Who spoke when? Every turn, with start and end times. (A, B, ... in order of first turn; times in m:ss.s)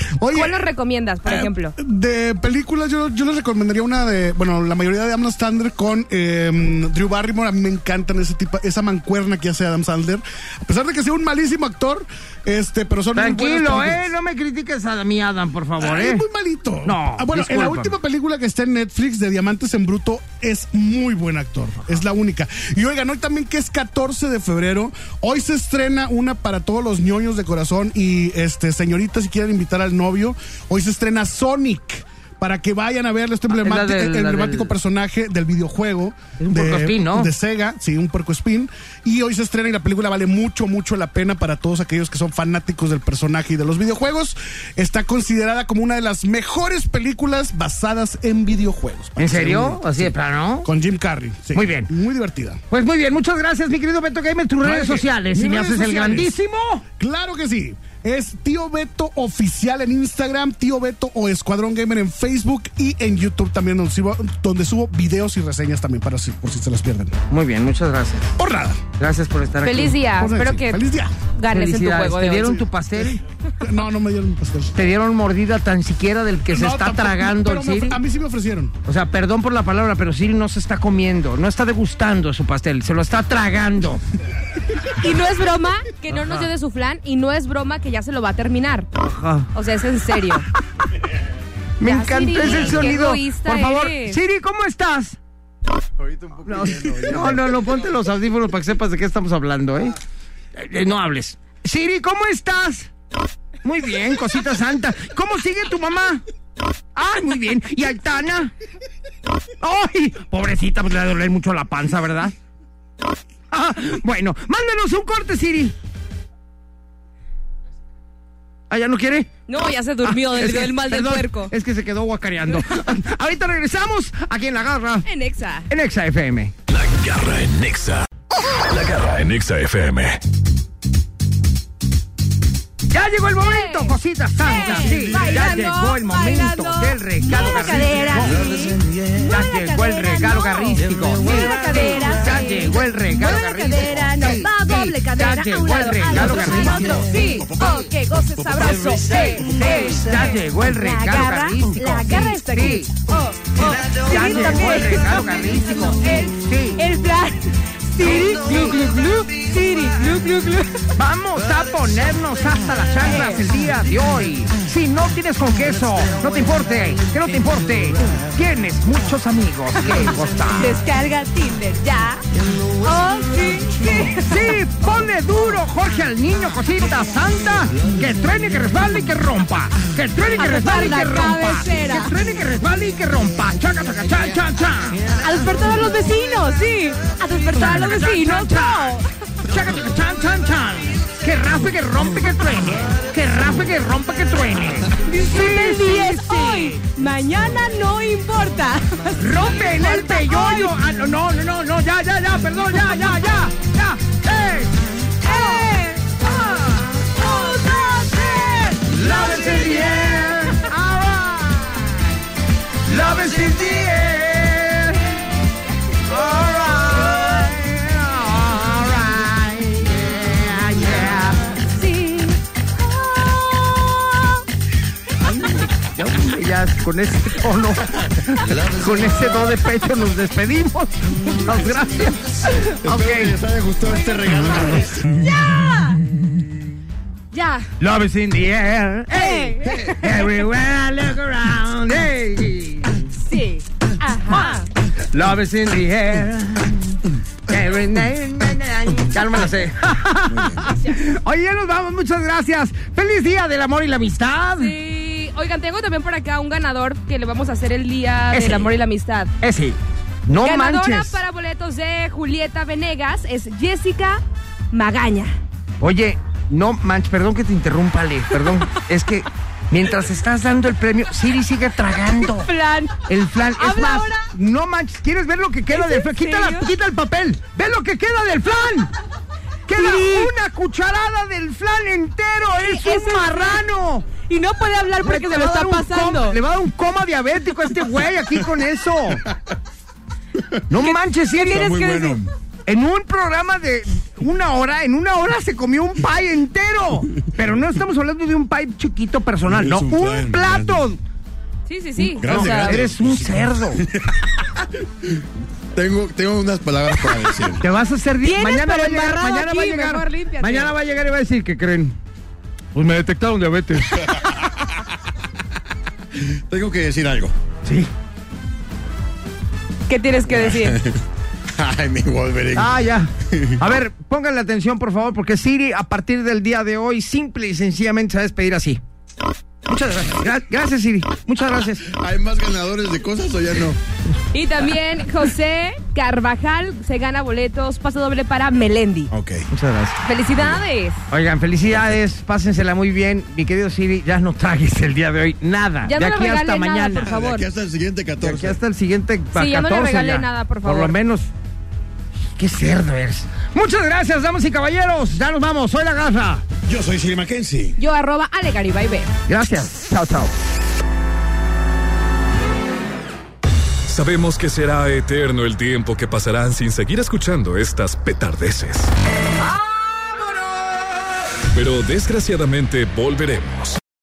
0:00.2-0:00.7 A
0:00.3-0:01.8 B
0:01.2-0:14.1 A
0:13.2-0:16.2 C
0:15.8-0:52.6 A
0:16.8-0:18.0 C
0:33.5-0:34.7 C
0:36.4-0:37.3 C
0:49.2-0:50.7 C
0:51.5-0:51.9 C
0:52.7-0:56.8 C
0:54.6-0:56.3 A
0:57.0-1:07.2 A
1:07.3-1:08.3 C
1:08.4-1:08.8 A
1:09.0-1:10.0 C
1:09.6-1:12.7 B
1:10.2-1:11.2 A
1:11.5-1:13.2 C
1:13.0-1:14.7 A
1:14.7-1:18.0 C
1:16.5-1:18.8 A
1:18.9-1:24.0 C
1:25.0-1:28.9 B
1:26.1-1:26.5 C
1:29.0-1:29.5 C
1:29.5-1:30.5 B
1:31.8-1:35.2 C
1:31.8-1:34.2 B
1:36.0-1:38.0 D
1:36.4-1:40.0 C
1:40.6-1:42.9 C
1:43.6-1:46.2 C
1:47.0-1:48.5 C
1:49.6-1:52.4 C
1:53.5-1:55.7 C
1:58.7-1:59.3 C
1:59.5-2:01.5 B
2:00.0-2:05.1 C
2:05.1-2:05.7 B
2:05.7-2:06.5 C
2:06.7-2:10.2 E
2:12.9-2:18.5 C
2:13.4-2:40.8 B
2:19.2-2:27.2 C
2:26.2-2:29.2 D
2:29.0-2:32.9 C
2:34.0-2:36.8 C
2:38.0-2:38.8 C
2:41.0-2:50.7 C
2:43.0-2:43.5 B
2:49.8-2:52.2 B
2:52.8-2:54.6 B
2:54.2-3:05.0 C
3:00.4-3:02.1 B
3:05.2-3:09.1 B
3:07.6-3:16.8 C
3:15.1-3:20.8 B
3:19.2-3:32.1 C
3:22.9-3:23.2 B
3:25.2-3:26.2 B
3:27.2-3:29.7 B
3:32.8-3:35.2 C
3:36.0-3:41.5 C
3:41.5-3:44.4 B
3:45.2-3:53.3 C
3:52.8-3:55.7 D
3:55.2-3:56.0 B
3:57.3-3:57.7 B
3:57.8-4:03.0 C
3:59.1-3:59.9 B
3:59.6-4:00.0 D
4:03.2-4:04.7 B
4:04.3-4:14.8 C
4:10.3-4:10.7 D
4:14.6-4:19.3 B
4:18.3-4:18.8 C
4:19.4-4:21.2 C
4:20.4-4:24.2 B
4:24.7-4:25.4 B
4:25.8-4:32.5 C
4:32.3-4:33.0 B
4:33.1-4:38.9 C
4:33.6-4:34.3 B
4:35.7-4:36.7 B
4:39.7-4:44.1 C
4:39.7-4:40.3 B
4:42.5-4:43.6 B
4:44.2-4:46.4 B
4:45.0-4:49.2 C
4:49.2-4:49.5 D
4:50.7-4:51.9 C
4:50.8-4:52.2 B
4:51.5-4:52.3 D
4:52.7-5:01.0 C
4:59.5-5:00.9 D
5:01.7-5:02.9 B
5:02.0-5:05.2 D
5:02.2-5:03.8 C
5:05.7-5:07.6 D
5:07.6-5:12.0 C
5:08.2-5:10.7 B
5:12.8-5:14.8 D
5:12.8-5:13.2 C
5:13.8-5:14.2 C
5:16.2-5:17.4 D
5:17.6-5:17.9 C
5:19.9-5:20.8 B
5:20.3-5:21.0 D
5:21.5-5:23.6 D
5:22.6-5:28.8 C
5:29.7-5:31.9 C
5:31.9-5:33.8 D
5:34.3-5:39.1 B
5:39.1-5:39.5 D
5:39.5-5:40.0 C
5:40.0-5:41.0 B
5:41.1-5:47.2 C
5:45.8-5:47.5 B
5:47.0-5:48.6 D
5:48.2-5:51.3 C
5:49.3-5:51.0 B
5:52.4-5:56.4 C
5:56.7-5:57.8 D
5:57.8-5:59.1 B
5:59.3-6:00.3 C
6:03.9-6:08.9 E
6:11.5-6:13.8 E